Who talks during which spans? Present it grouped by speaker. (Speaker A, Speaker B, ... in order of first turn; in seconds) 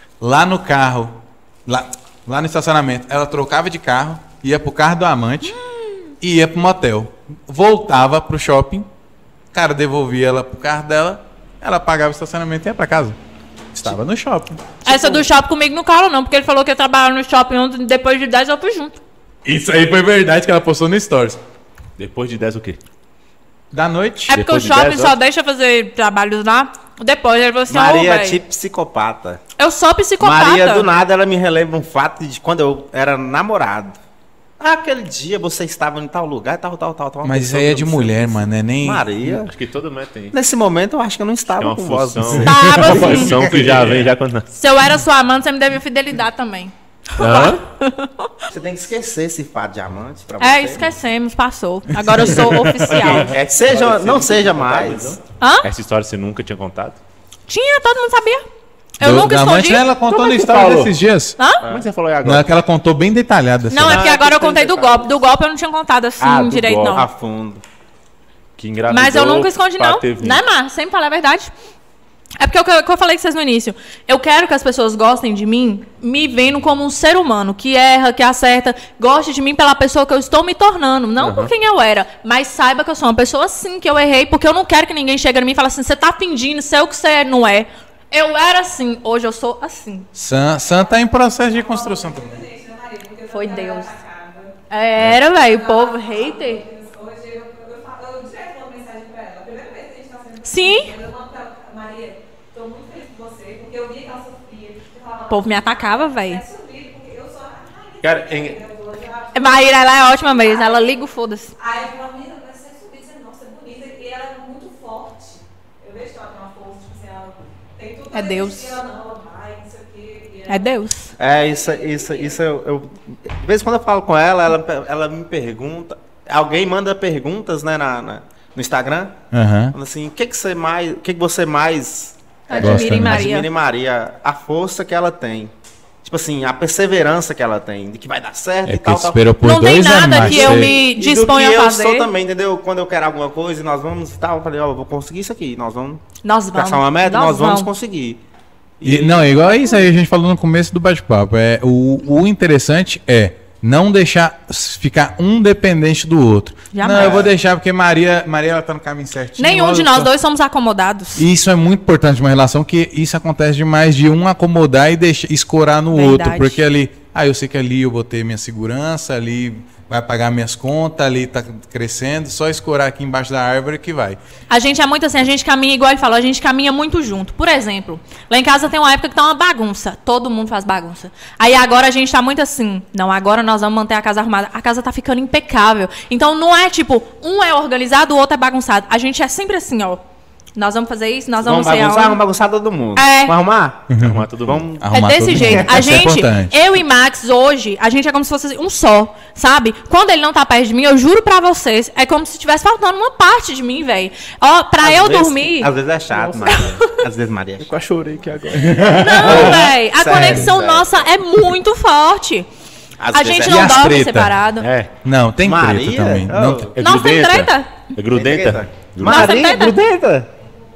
Speaker A: 0.2-5.6, 6.2-8.9, 9.5-13.2, 13.7-14.6, 19.4-21.4, 23.7-24.4, 37.2-39.0, 42.4-44.1, 52.0-53.2, 59.0-61.4, 62.2-64.1, 90.1-92.5, 129.3-129.8, 132.6-133.2, 138.7-140.7, 148.8-160.1, 161.2-174.2, 193.9-196.6, 208.6-209.6, 213.4-214.4, 215.0-216.7
Speaker B: 5.5-6.1, 14.8-19.0, 24.3-28.4, 29.6-30.9, 42.4-43.3, 44.5-48.5, 50.4-53.3, 55.4-55.7, 57.5-58.5, 59.0-60.3, 63.7-67.1, 68.9-71.5, 72.4-90.1, 93.3-94.0, 94.7-96.7, 100.4-101.0, 105.3-106.4, 109.3-111.5, 118.1-118.8, 120.5-121.1, 132.5-133.5, 139.4-142.1, 146.2-147.7, 156.7-157.2, 159.4-161.2, 165.9-166.6, 174.5-190.0, 190.6-192.2, 193.0-193.3, 194.9-205.7, 206.5-207.0, 208.9-212.5, 213.1-214.7, 216.8-217.7, 219.0-219.8
Speaker C: 22.0-22.8, 24.3-25.2, 39.2-40.4, 41.6-44.5, 47.2-47.6, 52.9-57.0, 60.3-60.9, 61.7-62.5, 66.2-67.1, 68.6-70.4, 81.2-81.5, 108.0-108.6, 194.0-194.8, 206.1-206.5, 207.6-209.6, 210.2-210.5, 214.6-214.9, 216.7-219.4
Speaker D: 27.7-29.4, 30.2-34.0, 34.6-39.5, 40.3-42.6, 48.5-50.9, 53.1-55.2, 63.8-65.1, 66.9-67.6, 121.2-135.5, 136.0-139.2, 140.1-146.0, 146.5-148.2, 148.8-149.2, 156.9-157.3, 191.4-193.9, 194.5-194.8, 195.3-195.7, 204.8-207.7, 209.3-211.1, 213.0-213.8, 215.4-216.7, 218.1-220.3
Speaker E: 91.7-94.5, 95.1-110.8, 111.6-120.8, 121.5-122.3